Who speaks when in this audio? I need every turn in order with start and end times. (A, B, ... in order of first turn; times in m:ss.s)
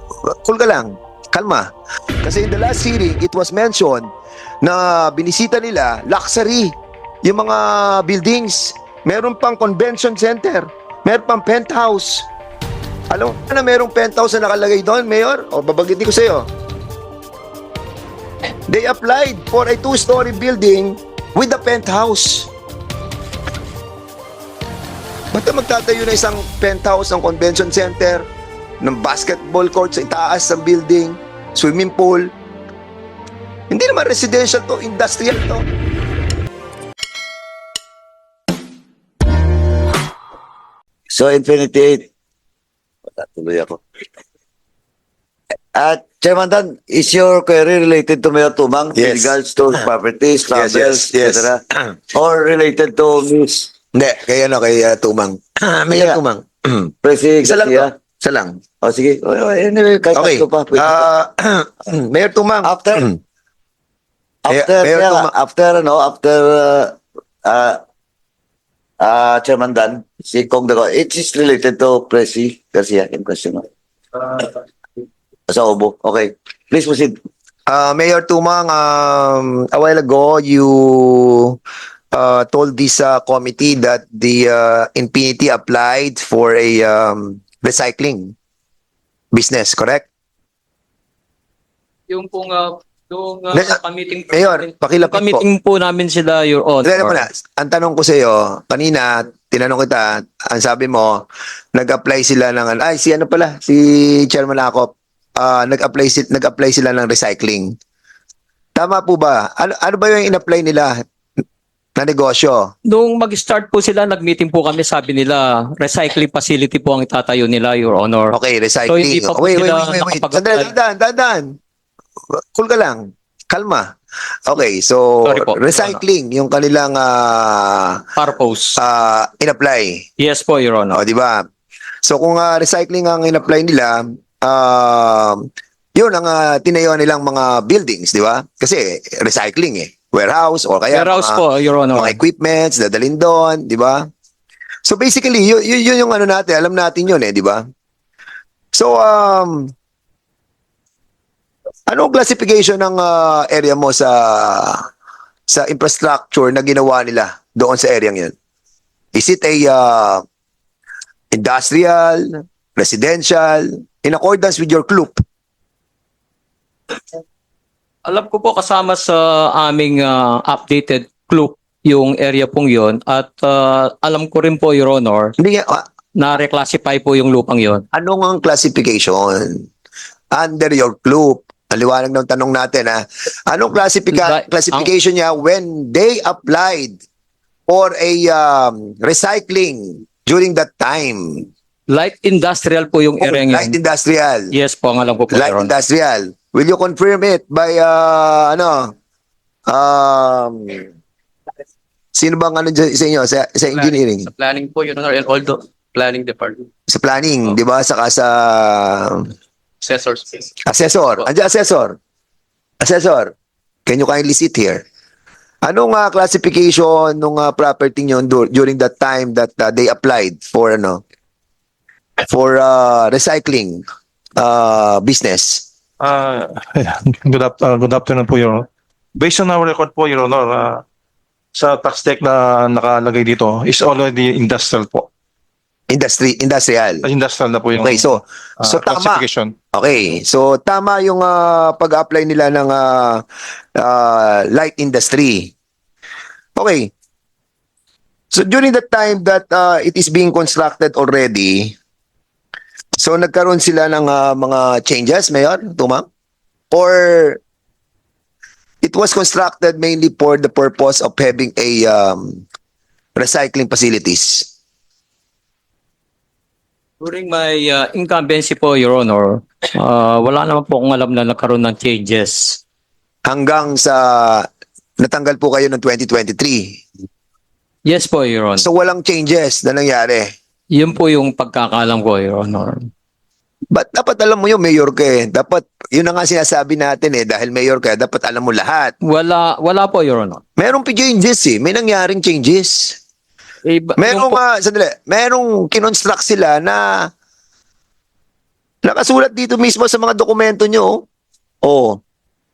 0:00.2-0:01.7 A
0:02.2-0:04.1 A
0:04.6-0:12.3 A
0:13.1-0:16.5 A
0:18.7-0:22.5 A
0:25.3-0:28.3 A
0:28.8-0:32.3 A
0:33.7-0:35.6 A
0:41.1-0:42.1 B
0:43.2-0:43.8 B
0:45.7-0:51.6 B
0:48.9-0:49.8 A
0:50.5-0:51.9 A
0:52.1-0:53.7 B
0:53.9-0:56.9 A
0:55.9-0:56.2 B
0:57.0-0:57.9 B
0:57.4-0:58.6 A
0:58.8-1:01.0 B
1:00.1-1:03.2 A
1:02.6-1:03.1 B
1:04.4-1:07.8 B
1:04.5-1:05.3 A
1:09.0-1:13.6 B
1:15.5-1:17.1 B
1:17.7-1:21.6 A
1:22.1-1:28.3 A
1:29.3-1:30.1 A
1:32.1-1:37.2 C
1:33.5-1:33.8 A
1:34.3-1:35.4 A
1:36.8-1:41.2 A
1:41.7-1:47.7 A
1:48.8-1:51.0 A
1:52.0-1:52.7 A
1:52.9-1:58.3 C
1:58.3-2:01.5 A
1:58.9-2:00.7 C
2:02.4-2:03.9 A
2:04.5-2:08.1 A
2:05.2-2:06.0 C
2:08.2-2:08.8 C
2:08.8-2:10.0 A
2:10.2-2:11.0 C
2:10.9-2:11.4 A
2:12.0-2:21.4 A
2:20.9-2:22.2 C
2:21.9-2:24.0 A
2:24.8-2:27.6 A
2:28.7-2:29.7 A
2:31.9-2:34.8 A
2:35.5-2:38.3 A
2:39.1-2:40.2 A
2:41.3-2:45.2 A
2:48.0-2:55.3 C
2:55.4-2:55.8 A
2:56.1-2:57.8 C
2:57.9-2:59.6 A
3:00.3-3:07.0 A
3:04.1-3:04.9 C
3:07.7-3:11.5 A
3:11.9-3:13.8 C
3:13.2-3:14.5 A
3:14.5-3:15.7 C
3:15.3-3:18.9 A
3:19.7-3:20.9 A
3:22.1-3:24.3 A
3:23.7-3:26.6 D
3:26.9-3:29.3 A
3:29.8-3:30.5 D
3:30.6-3:32.0 A
3:32.8-3:33.3 A
3:33.8-3:34.8 A
3:35.6-3:41.0 A
3:42.3-3:43.8 A
3:44.4-3:45.6 A
3:46.0-3:48.6 E
3:49.2-3:50.8 E
3:51.5-3:55.1 E
3:55.9-3:57.1 A
3:57.0-3:59.5 E
3:57.8-4:03.2 A
4:03.8-4:05.5 A
4:06.6-4:06.9 A
4:08.3-4:11.7 A
4:13.0-4:16.0 A
4:16.7-4:17.4 A
4:18.8-4:22.4 A
4:23.2-4:24.5 A
4:27.0-4:32.6 C
4:33.2-4:34.5 A
4:35.0-4:36.8 A
4:37.9-4:38.6 C
4:38.6-4:40.3 A
4:40.7-4:42.9 C
4:43.7-4:48.9 A
4:49.0-4:50.4 C
4:50.6-4:53.0 A
4:53.6-4:54.4 C
4:54.0-4:57.1 A
4:58.8-5:01.0 A
5:01.6-5:02.0 A